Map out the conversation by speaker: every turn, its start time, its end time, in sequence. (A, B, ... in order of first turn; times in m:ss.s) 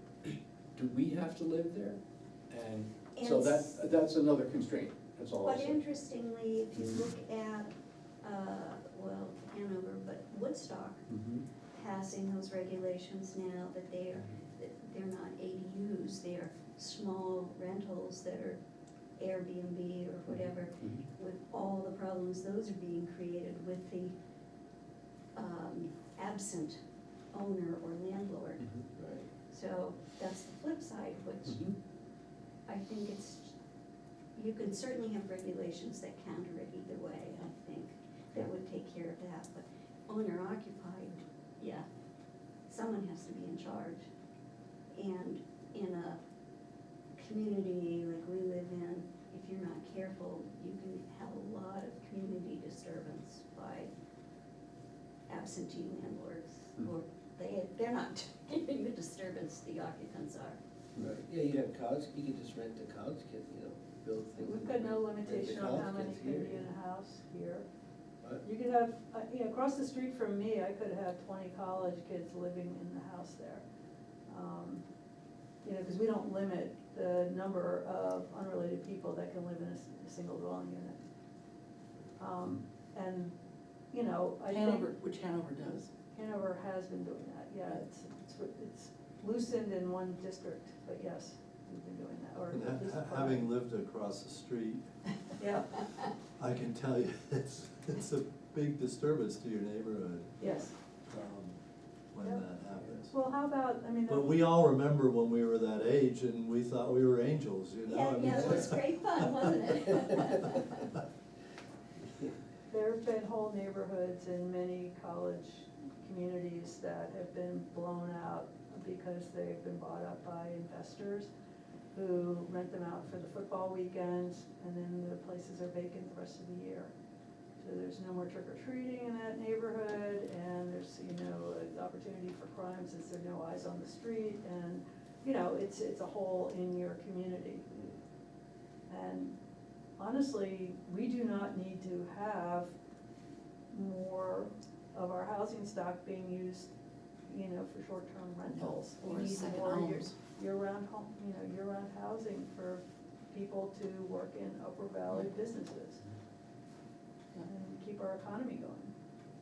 0:00.2-0:05.8 A
0:03.1-0:03.8 B
0:05.4-0:11.1 B
0:11.1-0:11.4 A
0:11.7-0:18.6 B
0:19.2-0:24.2 B
0:20.3-0:21.0 A
0:25.4-0:26.8 B
0:27.3-0:28.7 B
0:29.0-0:29.3 C
0:29.4-0:31.7 B
0:32.7-0:33.5 B
0:34.4-0:41.8 B
0:42.7-0:44.1 B
0:44.9-0:46.2 B
0:47.2-0:53.9 B
0:55.3-1:00.6 B
1:01.0-1:06.7 C
1:04.4-1:07.6 D
1:08.4-1:13.6 D
1:14.3-1:14.8 D
1:15.6-1:21.0 D
1:22.2-1:23.4 D
1:23.9-1:24.9 D
1:24.5-1:25.9 E
1:26.1-1:33.5 D
1:32.5-1:34.9 F
1:35.4-1:35.7 D
1:36.4-1:40.4 F
1:40.4-1:40.7 D
1:41.1-1:41.6 F
1:42.1-1:43.1 F
1:43.1-1:44.4 D
1:44.1-1:48.8 F
1:47.9-1:50.8 B
1:52.7-2:01.3 D
2:01.9-2:06.9 D
2:07.6-2:17.7 D
2:17.7-2:18.0 C
2:18.9-2:19.3 D
2:20.0-2:22.8 D
2:23.7-2:26.7 D
2:27.2-2:36.0 D
2:28.5-2:30.2 E
2:37.4-2:38.9 D